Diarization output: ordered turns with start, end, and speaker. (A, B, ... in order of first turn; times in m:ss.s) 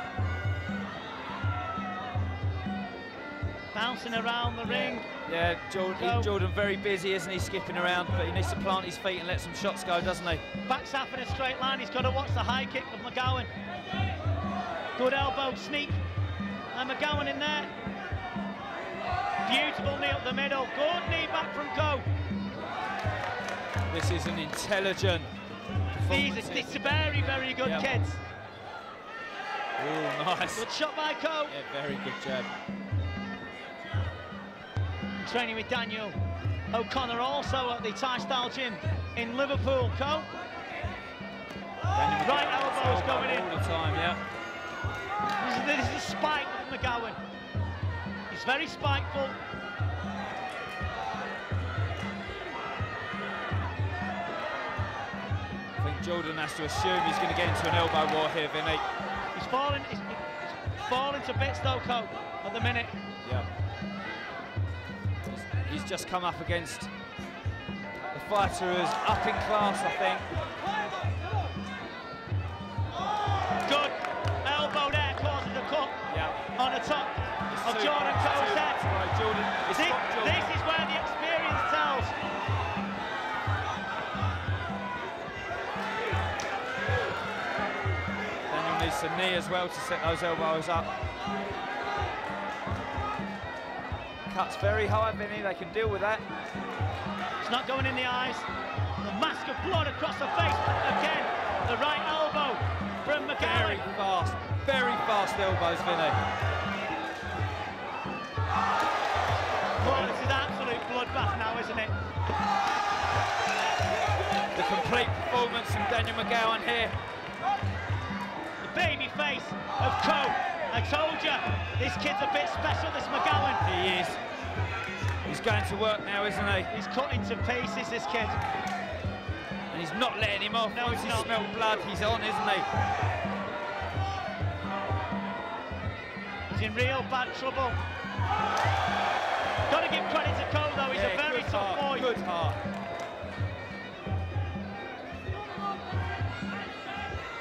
0:03.7-0:05.1 A
0:04.7-0:10.4 B
0:06.0-0:06.3 A
0:10.7-0:13.5 A
0:15.0-0:16.0 A
0:16.7-0:17.7 A
0:19.4-0:22.1 A
0:23.9-0:25.3 B
0:26.0-0:28.0 B
0:26.1-0:28.2 A
0:29.8-0:30.7 B
0:30.6-0:31.6 A
0:31.5-0:32.5 B
0:35.2-0:36.2 A
0:36.7-0:40.3 A
0:41.9-0:44.2 B
0:42.2-0:43.5 A
0:45.4-0:47.2 A
0:48.3-0:49.4 A
0:55.8-0:58.8 B
0:59.4-1:03.0 A
1:05.7-1:06.9 B
1:08.1-1:10.3 B
1:13.7-1:16.0 A
1:16.1-1:16.4 B
1:16.6-1:18.8 A
1:17.5-1:20.5 B
1:19.7-1:22.2 A
1:28.5-1:30.9 B
1:34.3-1:36.2 B
1:37.4-1:38.5 A
1:39.0-1:43.8 A
1:43.4-1:46.2 B
1:49.8-1:51.9 A
1:49.8-1:50.1 B
1:54.5-1:57.0 B
1:58.6-2:03.6 A
2:03.6-2:04.2 B
2:05.2-2:06.7 B
2:06.7-2:08.4 A
2:09.7-2:12.7 B
2:10.7-2:11.3 A
2:16.5-2:17.8 A
2:19.7-2:22.1 A
2:20.9-2:22.6 B